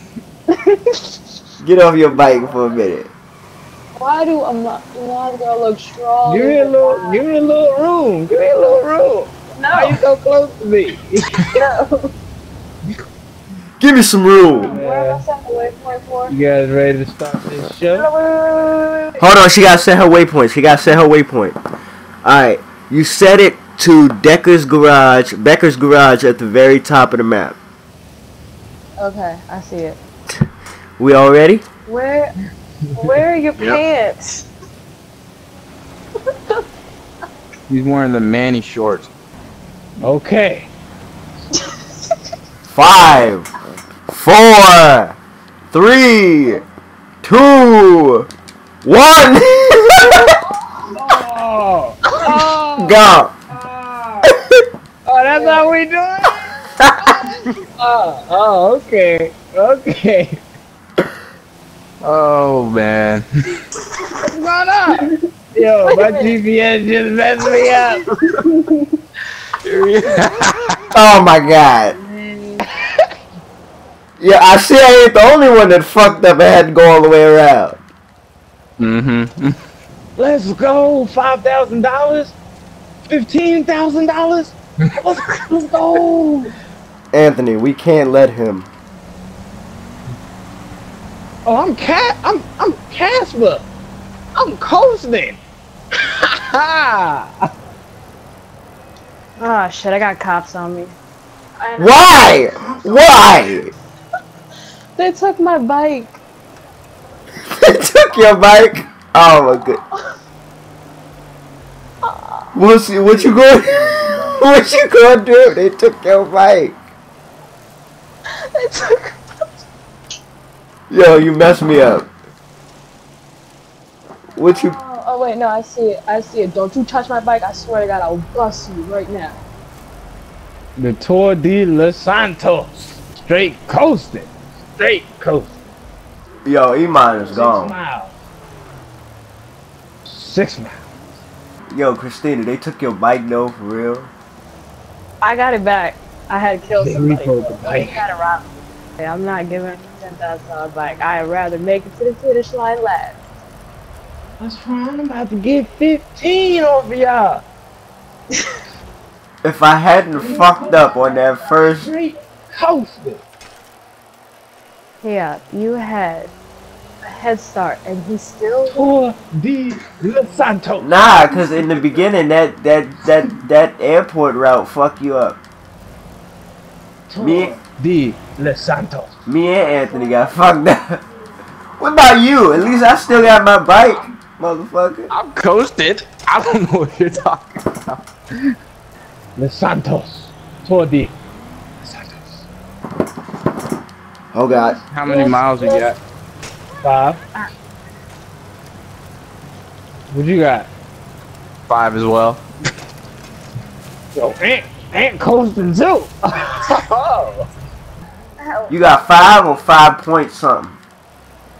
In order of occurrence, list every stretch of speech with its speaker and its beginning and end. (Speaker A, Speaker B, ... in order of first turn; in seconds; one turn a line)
Speaker A: 0.6-1.1
Speaker B: 1.6-3.1
Speaker A: 4.0-7.2
Speaker C: 6.3-11.5
Speaker A: 9.5-10.0
Speaker A: 11.4-12.1
Speaker B: 13.8-14.8
Speaker A: 14.5-16.3
Speaker C: 14.6-15.2
Speaker C: 16.3-18.1
Speaker A: 17.9-19.2
Speaker B: 19.2-21.6
Speaker B: 22.2-27.6
Speaker A: 29.0-30.0
Speaker B: 31.0-31.6
Speaker A: 31.9-32.3
Speaker A: 33.0-34.4
Speaker D: 37.7-39.1
Speaker C: 40.0-40.7
Speaker B: 42.7-43.5
Speaker B: 44.1-45.2
Speaker B: 45.7-46.6
Speaker B: 47.2-48.3
Speaker B: 48.8-50.4
Speaker C: 50.9-53.0
Speaker B: 52.8-53.3
Speaker C: 53.6-54.2
Speaker C: 55.1-56.4
Speaker A: 55.4-55.6
Speaker B: 56.8-57.3
Speaker C: 57.2-60.4
Speaker D: 62.0-63.2
Speaker C: 64.2-68.1
Speaker A: 65.8-66.4
Speaker A: 68.3-68.8
Speaker D: 69.6-70.8
Speaker B: 70.9-72.0
Speaker A: 71.5-72.7
Speaker C: 72.7-73.0
Speaker B: 74.2-77.8
Speaker D: 78.8-79.6
Speaker C: 80.2-82.4
Speaker C: 83.1-86.5
Speaker B: 87.1-88.7
Speaker C: 91.5-93.7
Speaker C: 94.3-95.4
Speaker C: 96.2-97.3
Speaker A: 99.4-101.0
Speaker A: 101.6-103.3
Speaker B: 101.8-103.7
Speaker A: 105.0-106.2
Speaker B: 107.6-109.8
Speaker A: 112.0-112.5
Speaker B: 112.5-116.7
Speaker A: 118.5-119.2
Speaker B: 120.9-122.1
Speaker B: 124.4-124.8
Speaker A: 124.5-129.4
Speaker C: 130.8-135.6
Speaker B: 136.4-137.7
Speaker C: 137.3-138.1
Speaker C: 140.1-140.9
Speaker B: 141.7-144.1
Speaker A: 145.2-153.2
Speaker C: 146.8-148.0
Speaker C: 154.4-157.4
Speaker B: 159.4-161.9
Speaker C: 160.2-163.2
Speaker A: 165.0-166.3
Speaker A: 167.0-168.8
Speaker C: 168.7-171.0
Speaker B: 170.8-175.4
Speaker C: 177.1-179.2
Speaker B: 177.2-177.6
Speaker B: 179.3-181.0
Speaker B: 181.8-185.1
Speaker D: 185.1-188.1
Speaker C: 189.4-191.2
Speaker C: 191.8-192.5
Speaker B: 194.3-194.8
Speaker D: 194.9-196.0
Speaker A: 195.1-195.9
Speaker C: 196.8-197.2
Speaker C: 200.1-200.7
Speaker D: 201.7-202.4
Speaker C: 204.1-207.5
Speaker A: 208.4-208.8
Speaker B: 208.7-210.8